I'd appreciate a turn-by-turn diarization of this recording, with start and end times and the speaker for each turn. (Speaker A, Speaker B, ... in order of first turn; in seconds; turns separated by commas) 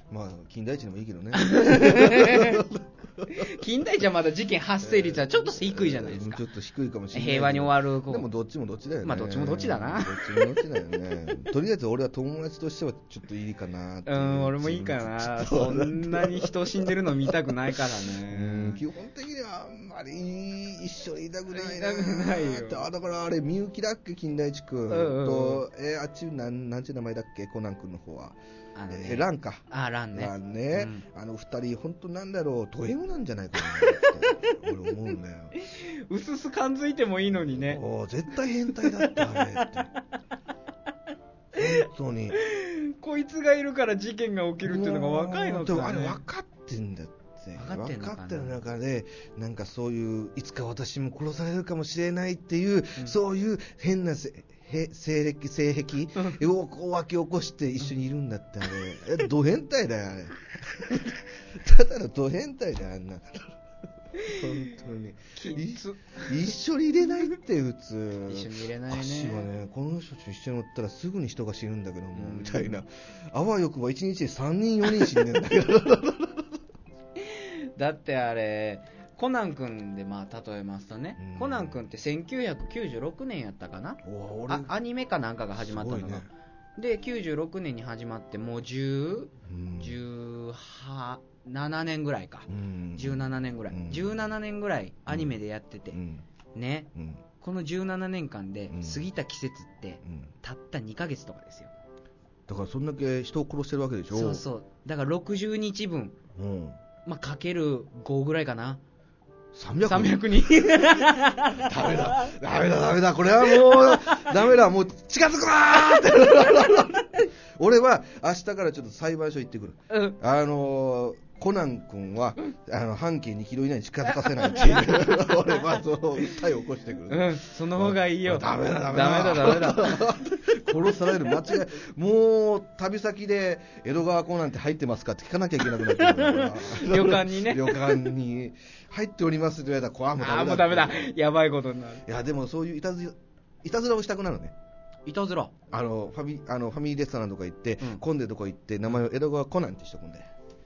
Speaker A: 0.1-3.5, Speaker B: 1.3-2.7, Speaker B: 3.2-6.4, Speaker A: 4.8-28.4, Speaker B: 7.1-8.3, Speaker B: 9.0-10.6, Speaker B: 14.1-18.8, Speaker B: 21.5-22.8, Speaker B: 24.9-25.6, Speaker B: 28.8-31.0, Speaker A: 28.9-35.6, Speaker B: 33.6-34.3, Speaker B: 35.5-37.8, Speaker A: 37.5-39.9, Speaker B: 38.8-40.0, Speaker A: 41.5-42.4, Speaker B: 41.5-46.2, Speaker A: 44.6-63.5, Speaker B: 47.5-48.5, Speaker A: 64.2-76.4, Speaker B: 64.2-64.5, Speaker B: 65.4-66.4, Speaker B: 68.3-69.5, Speaker B: 72.1-72.8, Speaker B: 77.2-86.2, Speaker A: 81.2-81.8, Speaker A: 84.0-84.7, Speaker A: 85.6-86.3, Speaker B: 86.8-96.0, Speaker A: 89.4-90.0, Speaker A: 92.5-94.2, Speaker A: 95.1-95.3, Speaker A: 95.9-96.2, Speaker B: 96.5-96.9, Speaker A: 96.9-97.2, Speaker B: 97.4-101.7, Speaker A: 98.7-99.0, Speaker A: 100.0-100.3, Speaker A: 102.5-104.4, Speaker B: 104.1-106.2, Speaker A: 106.3-106.8, Speaker B: 107.0-108.8, Speaker A: 109.5-110.4, Speaker B: 109.8-112.3, Speaker A: 111.5-141.1, Speaker B: 113.6-114.3, Speaker B: 119.9-120.2, Speaker B: 124.2-125.3, Speaker B: 127.1-130.4, Speaker B: 135.7-138.0, Speaker B: 140.2-142.0, Speaker A: 142.0-144.5, Speaker B: 145.1-145.5, Speaker A: 145.7-150.3